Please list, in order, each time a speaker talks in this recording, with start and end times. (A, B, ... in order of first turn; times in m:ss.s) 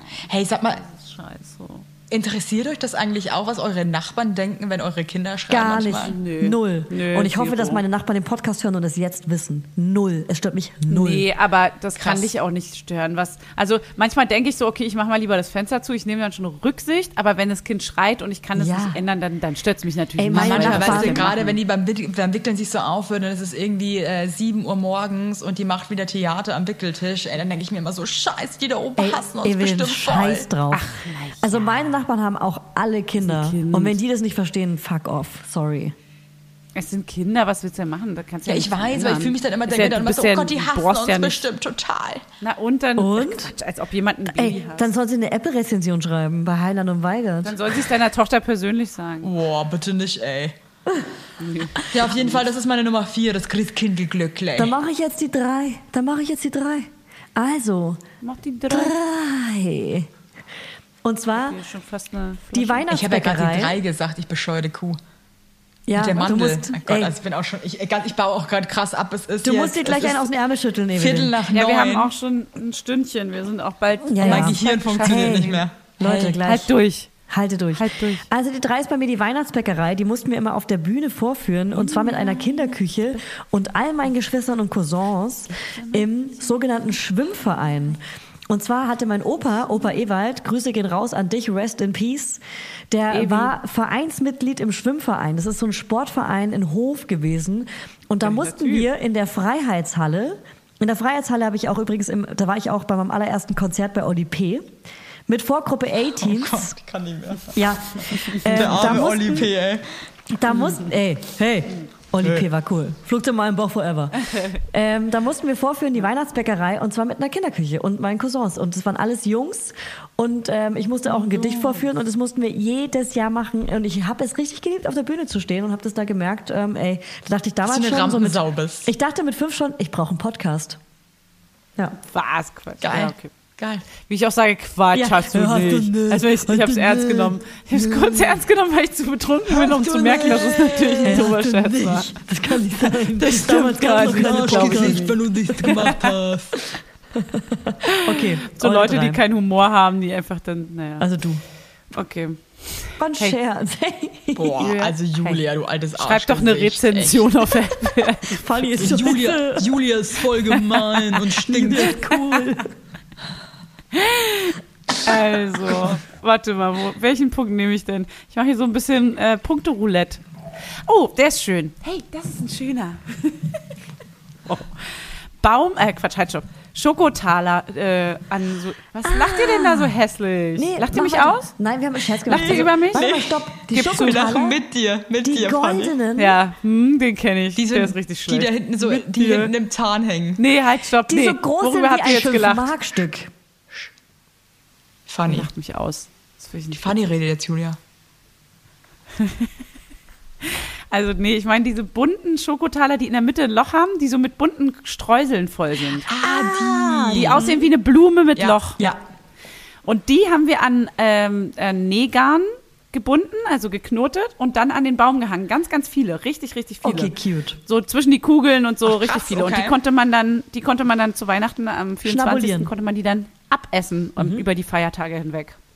0:00.2-0:00.8 A
0:00.8-0:01.8 B
0:02.1-0:06.1 A
0:05.5-0:11.2 C
0:06.0-0:07.8 B
0:10.9-0:21.6 B
0:12.0-0:12.3 A
0:18.6-0:19.0 C
0:20.2-0:21.3 C
0:20.3-0:30.5 A
0:29.0-0:30.9 C
0:30.7-0:31.6 B
0:31.4-0:35.9 C
0:33.2-0:34.0 B
0:36.7-0:41.4 B
0:38.4-0:42.2 A
0:42.4-0:44.9 B
0:43.0-0:43.5 C
0:44.3-0:47.7 C
0:47.4-0:49.3 B
0:49.2-0:50.5 A
0:51.4-0:52.4 B
0:51.9-0:54.7 A
0:54.6-0:58.0 C
0:58.2-0:58.9 B
0:58.7-1:00.1 C
1:01.0-1:01.6 C
1:01.3-1:02.9 B
1:02.5-1:03.8 C
1:02.9-1:05.0 A
1:05.9-1:07.1 C
1:05.9-1:10.3 A
1:09.4-1:11.3 C
1:10.9-1:12.1 A
1:11.5-1:15.6 B
1:14.1-1:16.7 C
1:14.2-1:16.4 A
1:16.4-1:17.1 B
1:17.3-1:44.7 C
1:17.7-1:18.3 B
1:21.7-1:22.8 B
1:25.6-1:26.0 B
1:33.1-1:33.5 B
1:38.2-1:38.9 B
1:45.3-1:46.7 C
1:46.1-1:49.8 A
1:47.5-1:49.5 C
1:50.3-2:10.8 C
1:54.3-1:54.6 B
2:01.1-2:01.8 B
2:07.6-2:08.9 A
2:12.0-2:13.3 B
2:12.8-2:13.9 A
2:14.0-2:22.1 B
2:14.9-2:18.3 C
2:19.5-2:21.3 A
2:21.0-2:26.0 C
2:23.2-2:26.0 B
2:23.4-2:26.6 A
2:27.2-2:29.2 C
2:27.8-2:31.1 B
2:31.0-2:31.4 C
2:31.9-2:33.3 B
2:33.0-2:34.7 C
2:34.4-2:37.5 A
2:34.6-2:35.4 B
2:36.0-2:38.4 B
2:38.3-2:39.7 C
2:38.8-2:42.0 A
2:41.3-2:42.7 C
2:43.9-2:50.2 B
2:50.8-2:53.6 B
2:54.5-3:01.5 B
2:59.0-2:59.9 C
3:00.6-3:04.6 C
3:02.2-3:03.1 B
3:02.3-3:05.9 A
3:03.7-3:04.3 B
3:05.2-3:06.4 C
3:06.2-3:09.5 B
3:07.6-3:10.4 A
3:10.4-3:12.7 B
3:11.1-3:13.3 C
3:15.1-3:15.5 A
3:15.3-3:17.0 B
3:16.7-3:17.8 A
3:19.2-3:19.5 B
3:20.4-3:26.1 B
3:26.1-3:27.6 A
3:26.1-3:27.6 C
3:27.1-3:28.8 B
3:28.4-3:29.0 A
3:29.8-3:37.1 B
3:36.8-3:37.6 C
3:37.6-3:45.6 B
3:38.8-3:39.8 A
3:42.0-3:42.7 C
3:44.2-3:44.4 C